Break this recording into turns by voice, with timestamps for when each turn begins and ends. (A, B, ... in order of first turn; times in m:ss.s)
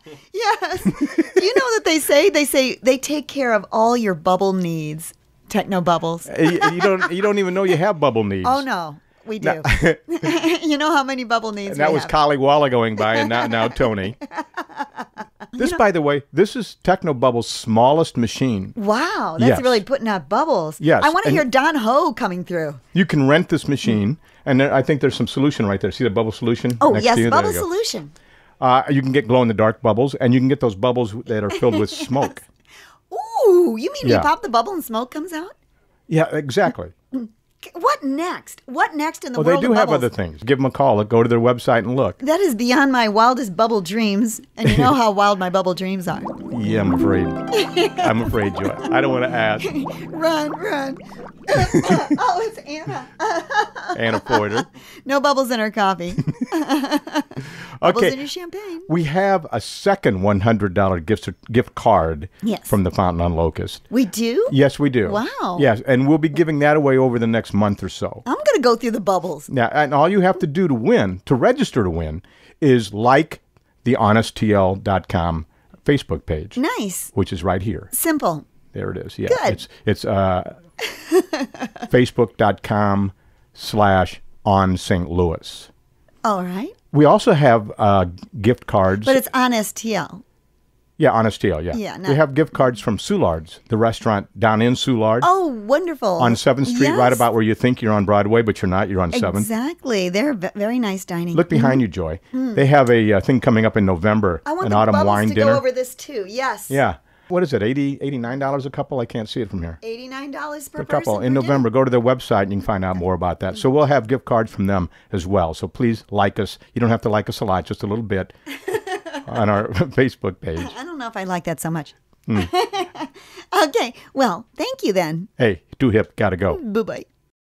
0:00.3-0:07.2 A
0:06.3-0:08.6 B
0:08.4-0:12.2 A
0:09.4-0:10.3 B
0:11.7-0:14.2 B
0:13.0-0:15.0 A
0:15.6-0:18.8 B
0:18.8-0:22.8 A
0:19.4-0:19.8 B
0:20.8-0:21.4 B
0:22.9-0:27.6 B
0:26.8-0:28.1 A
0:28.6-0:32.4 B
0:31.5-0:32.1 A
0:33.1-0:35.5 A
0:34.0-0:34.3 B
0:36.1-0:36.9 B
0:37.1-0:40.1 A
0:39.4-0:42.2 B
0:42.2-0:46.4 A
0:46.5-0:49.7 B
0:47.5-0:49.0 A
0:49.6-0:58.9 A
0:53.9-0:54.7 B
0:57.8-0:58.2 B
0:58.9-1:03.8 B
1:02.4-1:02.8 A
1:03.9-1:05.7 A
1:04.5-1:08.2 B
1:08.2-1:09.5 A
1:09.5-1:16.6 B
1:16.6-1:17.1 A
1:17.1-1:17.9 B
1:17.9-1:18.5 A
1:18.7-1:20.5 B
1:19.3-1:19.6 A
1:20.9-1:21.7 A
1:21.9-1:25.7 B
1:26.2-1:26.8 A
1:26.9-1:29.2 B
1:29.0-1:30.2 A
1:31.0-1:35.3 B
1:31.7-1:32.2 A
1:35.2-1:37.2 A
1:36.2-1:39.5 B
1:39.1-1:41.8 A
1:41.3-1:45.6 B
1:42.3-1:42.6 A
1:44.5-1:46.8 A
1:46.7-1:49.8 B
1:49.8-1:51.6 A
1:50.8-1:58.3 B
1:58.7-1:59.2 A
1:59.2-2:00.8 B
2:00.6-2:05.3 A
2:05.4-2:06.6 B
2:06.5-2:07.1 A